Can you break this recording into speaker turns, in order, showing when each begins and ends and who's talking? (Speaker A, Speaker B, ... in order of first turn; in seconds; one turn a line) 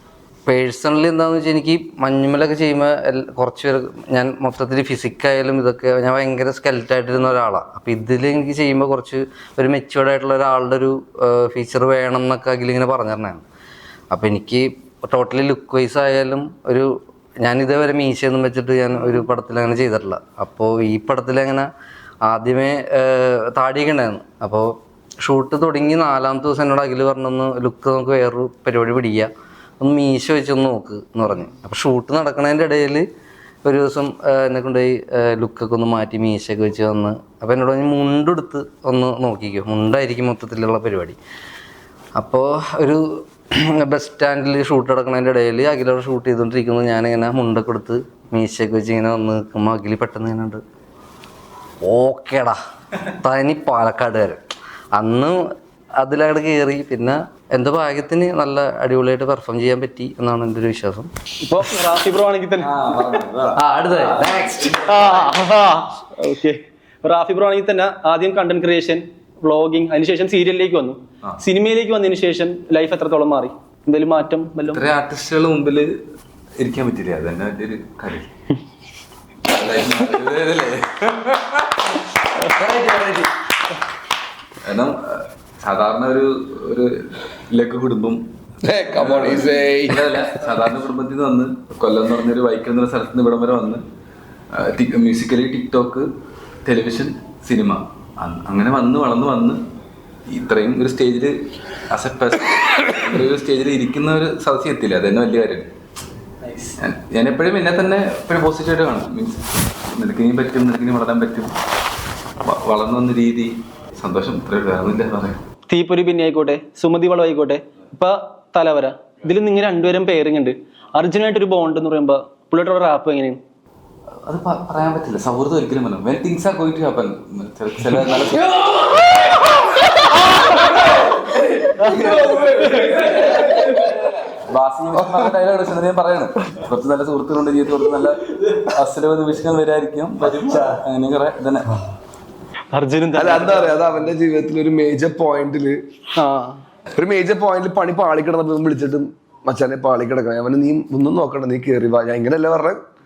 Speaker A: 0.5-13.4
Speaker A: 14.1-21.7
Speaker A: 22.2-29.3
Speaker A: 29.8-33.0
Speaker A: 33.6-41.2
Speaker A: 42.2-50.6
Speaker A: 51.8-52.6
Speaker A: 53.2-54.4
Speaker A: 54.9-55.4
Speaker A: 56.0-61.1
Speaker B: 61.4-63.2
Speaker C: 62.6-65.1
Speaker A: 63.6-64.5
Speaker B: 64.7-74.9
Speaker C: 74.7-75.9
Speaker C: 76.6-78.3
Speaker C: 79.4-81.5
Speaker C: 82.6-83.3
Speaker C: 84.6-88.2
Speaker D: 88.6-90.2
Speaker C: 88.9-93.8
Speaker C: 94.5-96.1
Speaker C: 96.6-99.6
Speaker C: 100.3-101.3
Speaker C: 101.9-105.7
Speaker B: 106.4-106.7
Speaker C: 106.8-111.5
Speaker C: 112.4-115.4
Speaker B: 115.7-123.4
Speaker C: 124.2-129.3
Speaker C: 130.5-141.7
Speaker B: 131.8-133.8
Speaker B: 142.7-143.8
Speaker D: 143.1-145.8
Speaker B: 146.2-146.6
Speaker D: 146.9-152.8